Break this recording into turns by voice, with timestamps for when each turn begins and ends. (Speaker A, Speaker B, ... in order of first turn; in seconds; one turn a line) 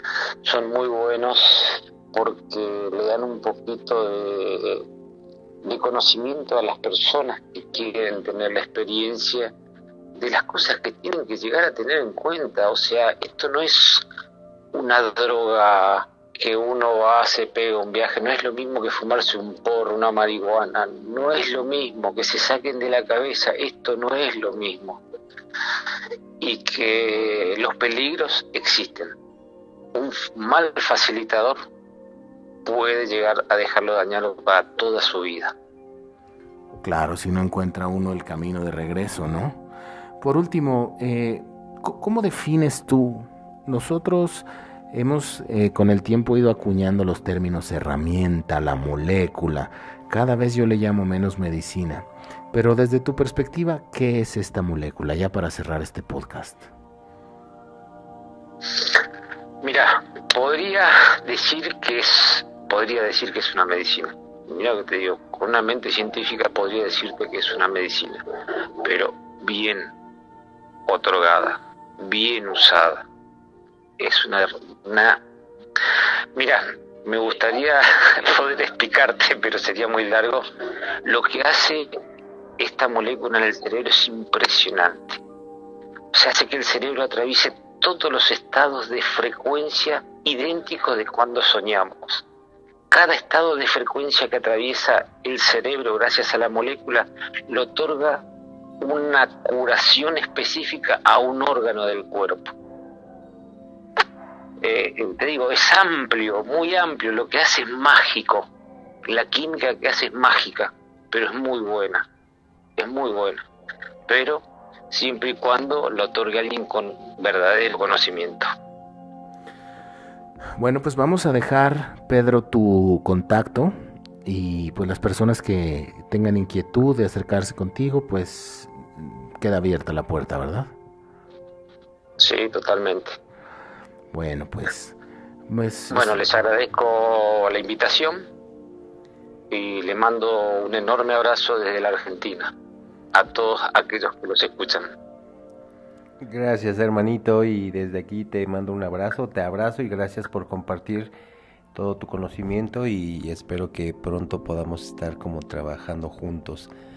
Speaker A: 0.4-4.8
Speaker A: 5.6-9.5
Speaker A: 10.2-14.1
Speaker A: 14.7-25.0
Speaker A: 26.4-29.1
Speaker A: 29.9-31.6
Speaker A: 32.6-35.5
Speaker B: 36.8-39.6
Speaker B: 40.2-56.7
Speaker A: 59.6-68.2
Speaker A: 68.8-69.9
Speaker A: 70.9-73.0
Speaker A: 74.0-75.2
Speaker A: 76.3-80.5
Speaker A: 81.0-81.9
Speaker A: 82.6-85.2
Speaker A: 86.1-92.2
Speaker A: 92.9-98.2
Speaker A: 98.8-102.5
Speaker A: 104.6-108.5
Speaker A: 109.0-112.1
Speaker A: 112.8-113.4
Speaker A: 114.1-118.5
Speaker B: 120.6-123.7
Speaker B: 124.2-130.7
Speaker A: 132.2-133.2
Speaker B: 134.1-134.9
Speaker B: 135.5-136.3
Speaker A: 135.9-138.2
Speaker A: 139.5-142.5
Speaker A: 143.1-144.9
Speaker C: 146.2-151.1
Speaker C: 151.7-156.7